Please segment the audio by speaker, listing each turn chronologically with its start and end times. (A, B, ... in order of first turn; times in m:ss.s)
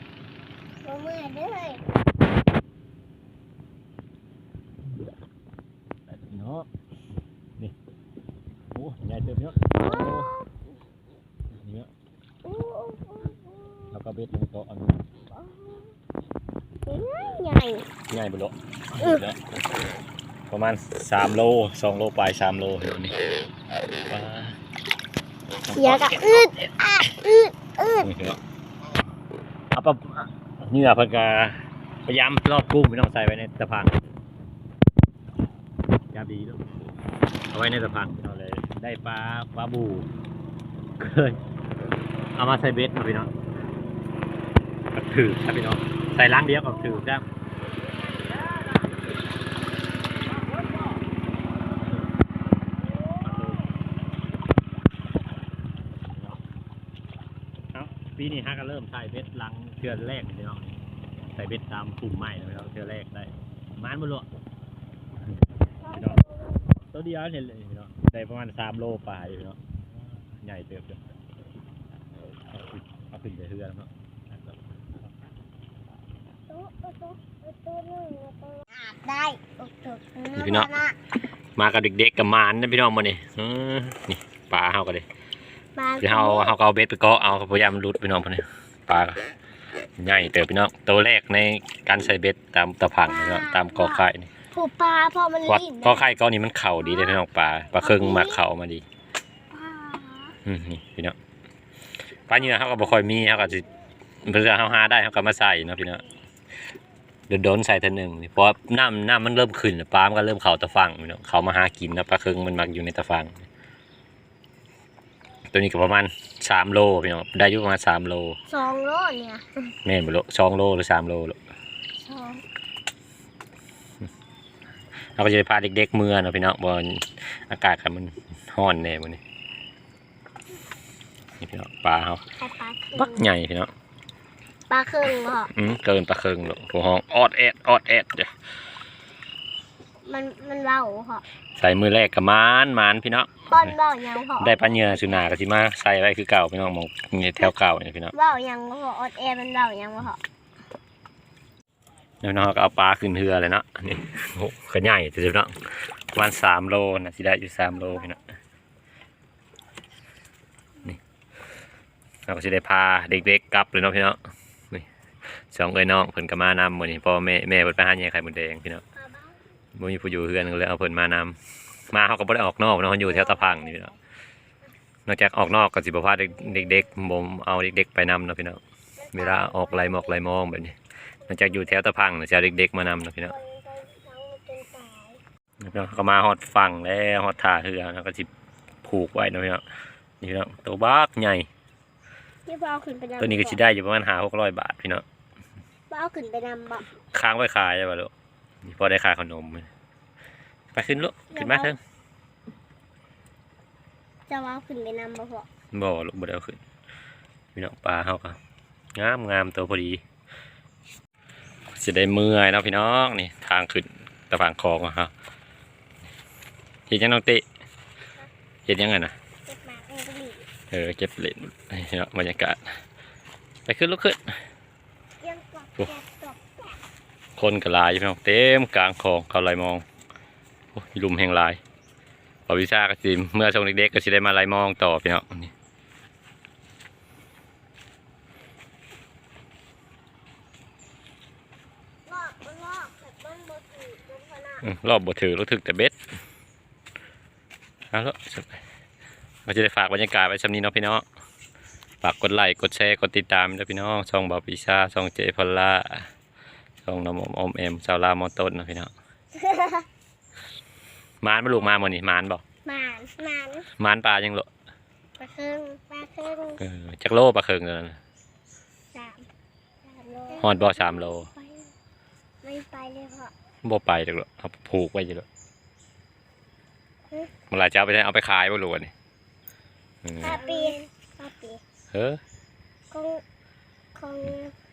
0:00.8-0:01.8 A
0:06.1-0:06.7 B
0:08.7-0:10.3 B
0:09.8-0:10.4 A
0:11.6-0:11.9 B
0:12.4-0:13.9 A
0:13.9-0:15.1 B
0:15.4-0:15.9 A
0:16.9-0:17.8 A
0:18.1-0:19.4 B
0:20.5-0:23.2 B
0:24.1-0:24.6 B
0:25.7-0:26.4 B
0:25.7-0:28.1 A
0:28.0-0:28.4 B
0:29.7-0:34.0 B
0:36.1-0:36.6 B
0:37.5-0:40.1 B
0:41.0-0:41.4 B
0:42.4-0:43.3 B
0:44.9-0:47.2 B
0:53.2-0:53.6 B
0:57.7-1:00.7 B
1:01.3-1:04.3 B
1:05.9-1:06.2 B
1:05.9-1:06.6 A
1:06.9-1:09.6 B
1:10.4-1:11.0 B
1:12.3-1:15.0 B
1:16.5-1:21.0 A
1:20.3-1:20.7 B
1:21.6-1:25.0 B
1:25.7-1:26.6 A
1:26.0-1:29.3 B
1:30.0-1:34.3 B
1:33.0-1:36.1 A
1:35.4-1:38.8 B
1:36.8-1:37.2 A
1:37.8-1:38.4 A
1:39.5-1:40.3 A
1:40.4-1:41.2 B
1:42.3-1:43.7 B
1:44.2-1:46.0 B
1:47.3-1:53.4 B
1:55.5-1:58.4 B
1:58.5-1:59.4 A
1:59.8-2:01.4 B
2:02.0-2:02.4 A
2:05.2-2:09.2 B
2:11.4-2:12.2 B
2:12.4-2:13.2 A
2:12.9-2:13.7 B
2:14.7-2:15.5 A
2:15.5-2:18.3 B
2:20.0-2:21.2 A
2:21.6-2:23.7 B
2:23.5-2:25.4 A
2:24.4-2:28.1 B
2:28.1-2:30.2 A
2:32.2-2:35.6 B
2:36.1-2:38.2 B
2:42.3-2:44.2 B
2:45.5-2:48.8 B
2:49.0-2:49.3 A
2:49.7-2:51.4 B
2:51.9-2:53.9 B
2:53.1-2:53.7 A
2:55.1-2:58.6 B
2:59.0-3:00.2 A
2:59.1-3:00.8 B
3:01.3-3:01.7 A
3:01.3-3:03.3 B
3:03.2-3:05.2 A
3:05.6-3:08.3 B
3:08.8-3:09.6 B
3:10.2-3:11.5 B
3:12.5-3:13.6 A
3:13.2-3:15.0 B
3:15.9-3:16.8 A
3:17.1-3:18.1 B
3:18.6-3:19.7 B
3:20.7-3:21.8 B
3:21.3-3:21.7 A
3:24.3-3:25.5 A
3:25.7-3:26.6 B
3:27.6-3:28.4 B
3:28.9-3:30.0 B
3:31.7-3:35.1 B
3:36.9-3:37.4 B
3:38.7-3:39.1 B
3:39.4-3:40.5 A
3:40.7-3:42.7 B
3:43.7-3:44.3 B
3:45.2-3:46.4 A
3:47.4-3:49.8 B
3:50.7-3:51.6 B
3:52.5-3:55.5 B
4:02.1-4:04.6 A
4:04.6-4:06.0 B
4:07.9-4:08.6 B
4:09.4-4:11.0 B
4:12.0-4:16.1 B
4:16.8-4:18.9 B
4:19.3-4:19.9 A
4:21.2-4:22.4 B
4:22.6-4:23.7 A
4:23.8-4:24.5 B
4:25.2-4:26.6 A
4:26.6-4:28.0 B
4:28.9-4:29.3 A
4:29.8-4:31.7 A
4:30.4-4:31.3 B
4:32.4-4:33.3 A
4:33.6-4:35.2 B
4:37.5-4:38.9 B
4:40.0-4:40.4 B
4:40.2-4:41.6 A
4:41.9-4:42.2 B
4:42.9-4:43.2 A
4:43.9-4:44.5 A